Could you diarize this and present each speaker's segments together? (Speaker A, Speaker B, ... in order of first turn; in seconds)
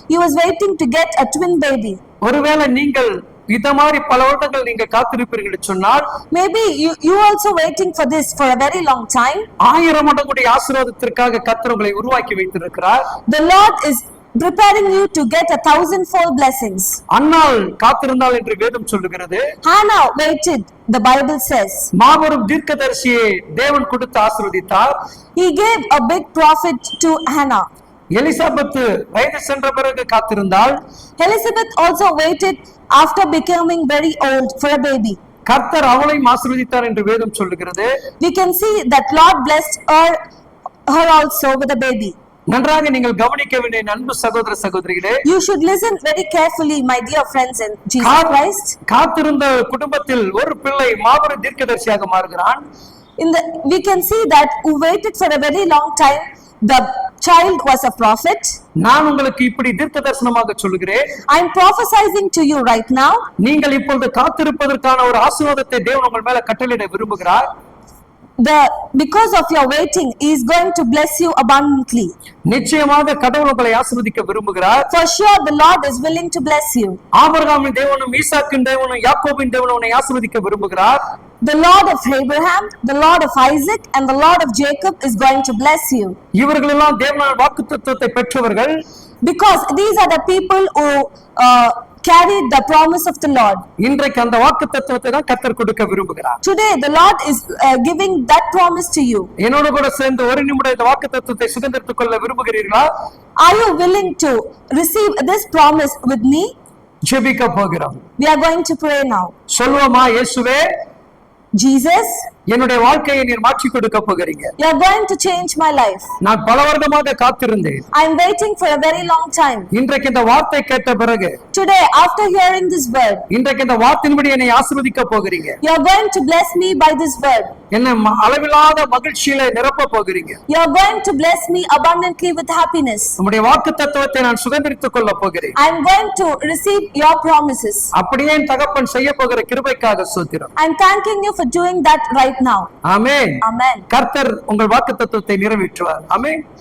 Speaker A: 0.1-2.0, 6.3-9.5, 13.3-17.0, 19.6-21.9, 25.4-27.7, 31.2-35.2, 38.2-40.2, 40.9-42.1, 45.2-48.8, 53.2-58.6, 61.3-63.3, 68.4-72.2, 74.9-77.0, 81.4-86.2, 89.2-93.7, 96.4-99.3, 103.4-106.5, 108.2-109.3, 111.5-112.3, 114.6-116.1, 117.9-119.7, 121.5-123.2, 125.6-127.5, 130.5-133.2, 135.6-137.9, 140.6-142.7, 143.4-143.9
Speaker B: 2.2-6.1, 9.6-13.0, 17.1-19.4, 21.9-24.9, 28.1-30.8, 35.5-37.9, 42.5-45.2, 48.0-48.3, 48.9-52.6, 58.8-61.0, 63.4-67.5, 72.5-74.9, 77.1-81.0, 86.3-88.8, 93.8-96.4, 99.4-102.9, 107.0-108.0, 109.5-110.7, 112.5-114.5, 116.2-117.8, 119.7-121.4, 123.3-125.6, 127.7-130.4, 133.2-135.6, 137.9-140.5, 142.8-146.4